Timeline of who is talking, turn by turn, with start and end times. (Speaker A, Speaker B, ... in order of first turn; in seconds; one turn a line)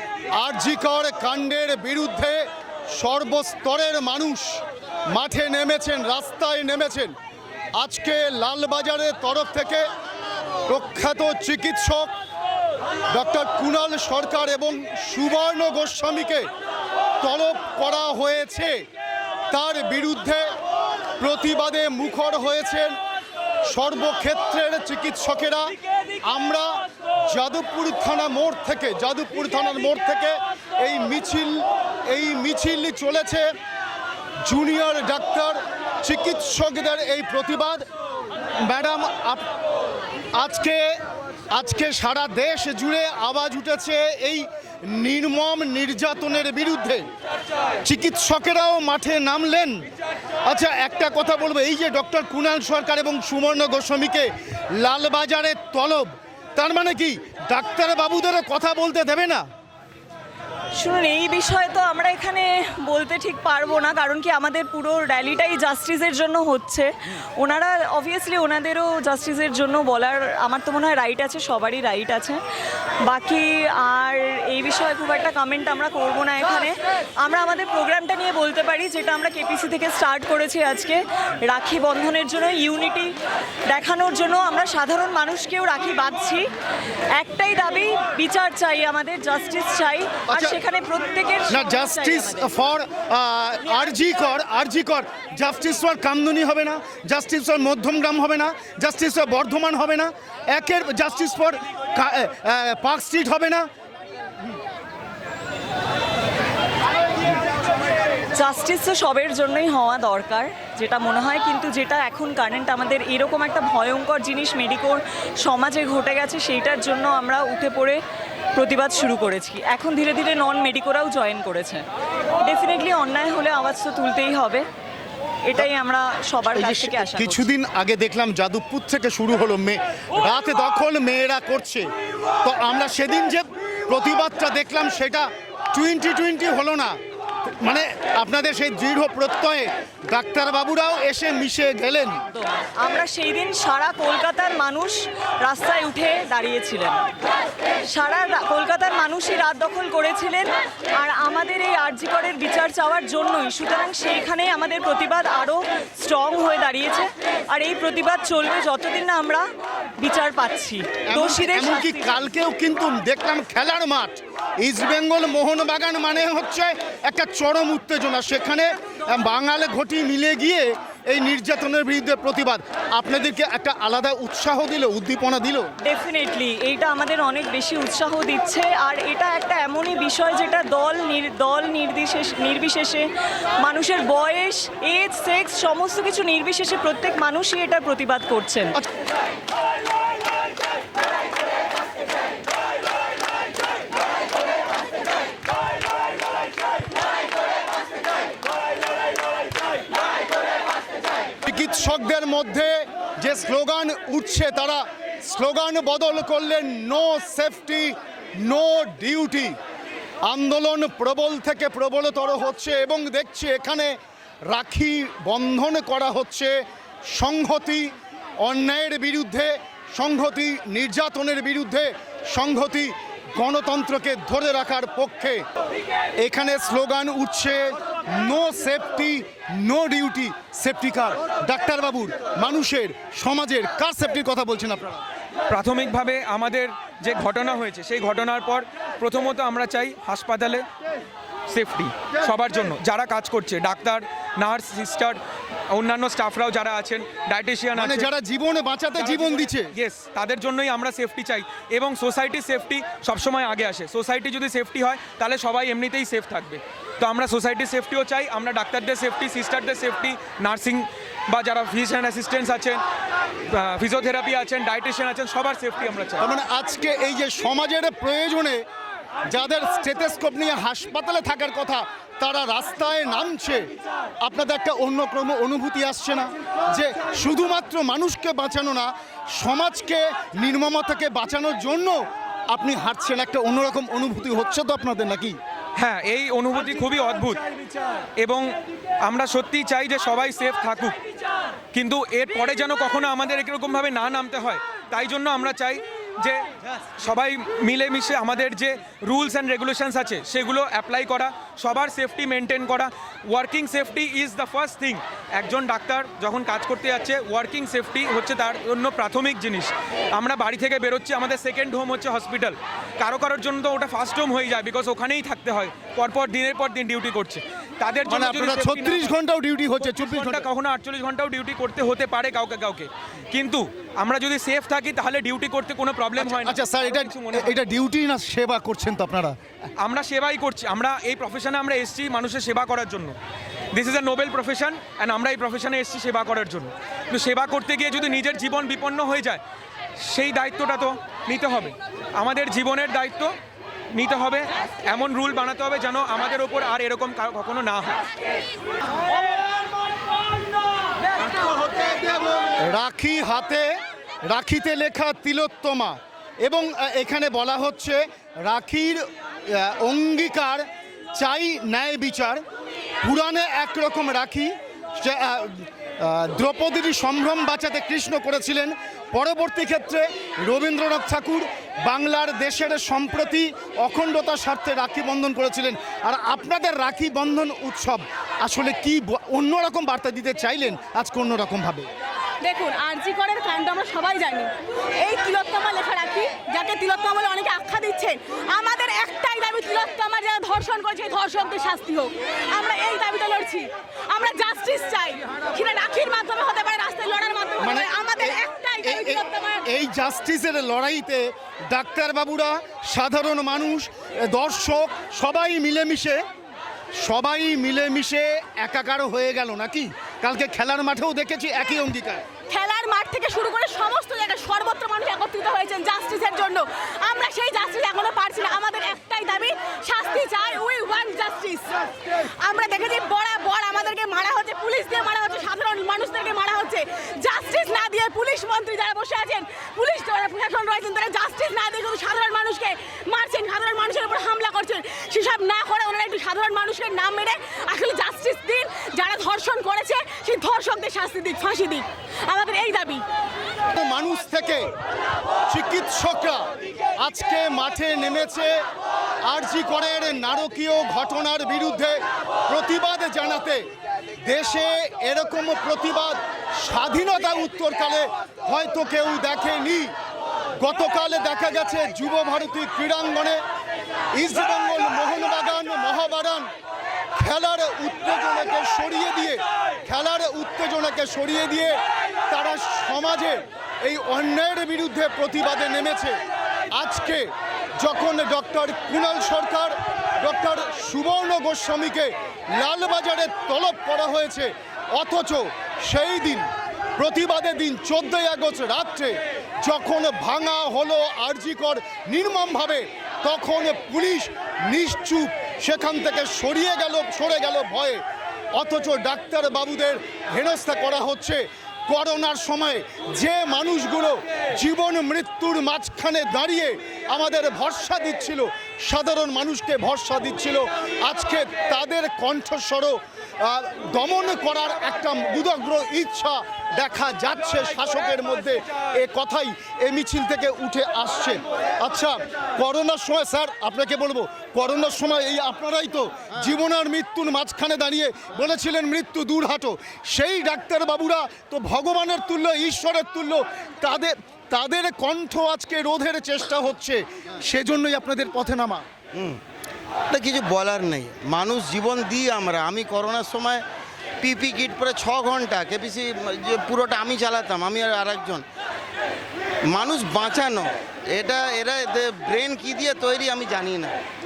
Speaker A: 0.3-7.1
Speaker A: 7.8-9.8
Speaker A: 10.7-12.1
Speaker A: 13.1-16.5
Speaker A: 17.2-18.8
Speaker A: 19.5-20.5
Speaker A: 21.2-23.0
Speaker A: 23.7-33.5
Speaker A: 34.4-37.9
Speaker A: 38.6-39.5
Speaker A: 40.4-41.0
Speaker A: 41.5-47.0
Speaker A: 47.8-49.9
Speaker A: 50.5-59.4
Speaker B: 60.8-72.4
Speaker B: 73.0-83.2
Speaker B: 83.7-86.5
Speaker B: 87.2-92.5
Speaker A: 90.3-90.6
Speaker A: 91.5-103.7
Speaker B: 108.4-118.0
Speaker B: 118.6-121.8
Speaker B: 122.4-124.7
Speaker B: 125.5-127.5
Speaker A: 126.6-131.9
Speaker A: 132.4-137.0
Speaker A: 137.6-142.2
Speaker B: 142.3-147.0
Speaker B: 147.9-159.5
Speaker B: 160.0-162.3
Speaker A: 161.1-175.7
Speaker B: 175.8-183.1
Speaker B: 183.6-188.8
Speaker A: 201.5-209.6
Speaker A: 210.2-214.0
Speaker A: 214.5-225.4
Speaker A: 226.2-235.0
Speaker C: 235.5-240.7
Speaker C: 241.5-248.1
Speaker A: 247.8-249.7
Speaker C: 249.0-262.8
Speaker C: 263.5-266.2
Speaker A: 266.2-268.7
Speaker A: 269.3-273.7
Speaker A: 274.2-282.0
Speaker A: 282.5-285.4
Speaker C: 285.8-287.4
Speaker C: 288.2-288.5
Speaker C: 289.0-291.0
Speaker C: 291.7-296.4
Speaker C: 297.0-319.1
Speaker A: 318.1-320.5
Speaker C: 319.8-327.5
Speaker A: 326.2-329.4
Speaker C: 329.8-333.2
Speaker C: 333.7-339.4
Speaker C: 340.1-343.3
Speaker C: 343.9-348.0
Speaker A: 352.6-353.7
Speaker A: 354.3-362.4
Speaker A: 363.0-381.9
Speaker D: 382.4-399.6
Speaker A: 397.6-406.2
Speaker A: 407.0-412.2
Speaker D: 412.5-443.0
Speaker A: 443.7-444.7
Speaker A: 445.5-446.5
Speaker A: 447.0-448.6
Speaker A: 449.2-453.6
Speaker A: 454.2-459.9
Speaker A: 460.6-463.4
Speaker A: 464.1-466.5
Speaker A: 467.2-476.2
Speaker A: 476.7-498.0
Speaker A: 498.5-538.9
Speaker E: 539.1-539.4
Speaker E: 540.1-543.6
Speaker E: 544.2-548.5
Speaker E: 549.7-554.0